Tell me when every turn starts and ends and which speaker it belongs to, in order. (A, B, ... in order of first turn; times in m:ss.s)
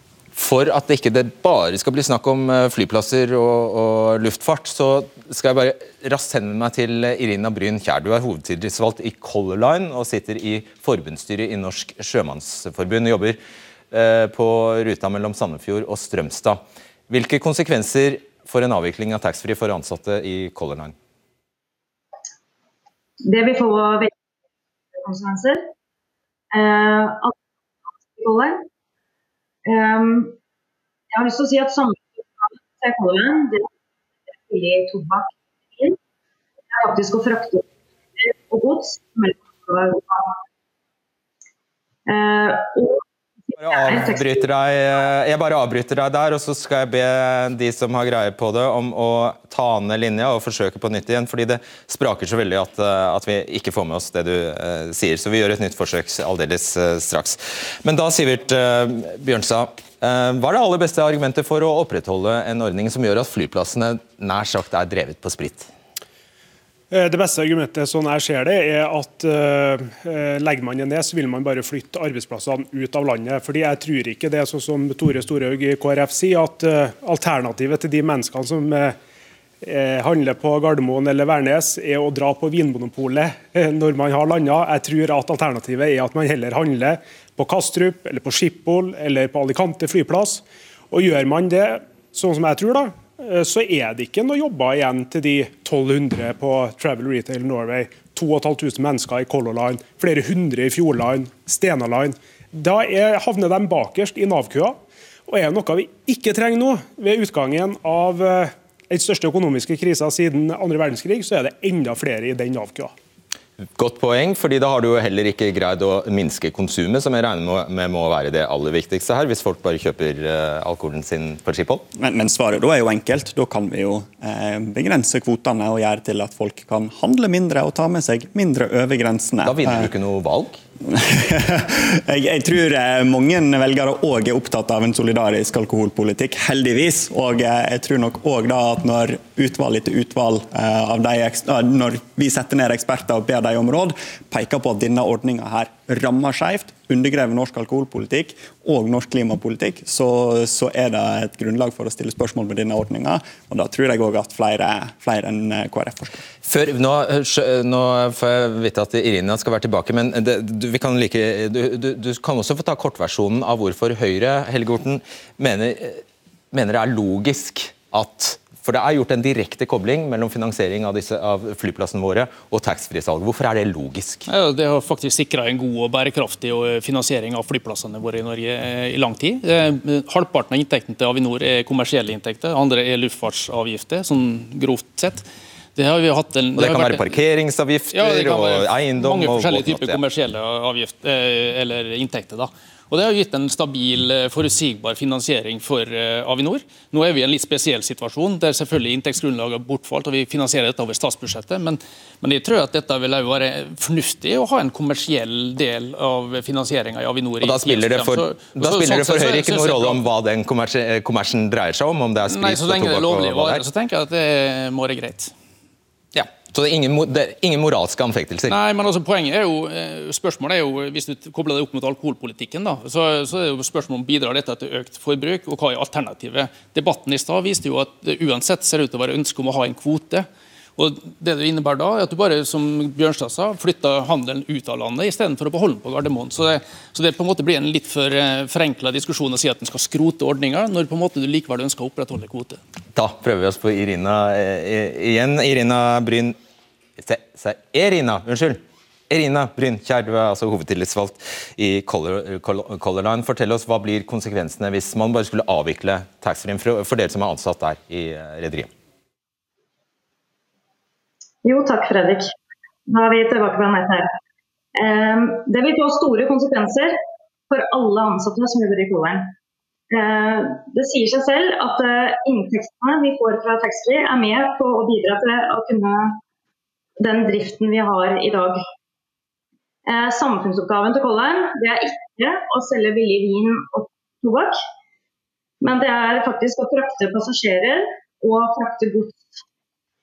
0:00.4-0:13.4 A
0:13.9-0:21.0 A
0:23.2-0:24.1 B
0:25.0-0:25.7 B
0:26.5-0:27.4 B
0:28.1-0:28.7 B
0:29.6-0:30.4 B
0:31.1-0:33.7 B
0:34.5-0:36.0 B
0:36.7-0:37.6 B
0:38.2-0:40.4 B
0:42.1-0:44.5 B
0:43.6-1:05.7 A
1:06.9-1:19.0 C
1:19.6-1:52.9 C
1:53.8-2:01.8 A
2:01.9-2:09.9 D
2:09.4-2:10.6 A
2:10.8-2:36.2 D
2:36.4-2:54.2 A
2:54.3-3:07.1 E
3:06.6-3:10.0 A
3:07.9-3:30.0 E
3:27.4-3:33.6 A
3:32.3-3:35.3 E
3:36.1-3:38.6 A
3:38.5-4:02.6 E
4:03.0-4:06.4 A
4:07.0-4:18.7 A
4:21.4-4:22.3 B
4:22.9-4:24.1 B
4:24.8-4:26.9 B
4:27.5-4:29.3 B
4:29.9-4:36.2 B
4:37.0-4:38.6 B
4:39.9-4:44.6 B
4:45.6-4:49.3 B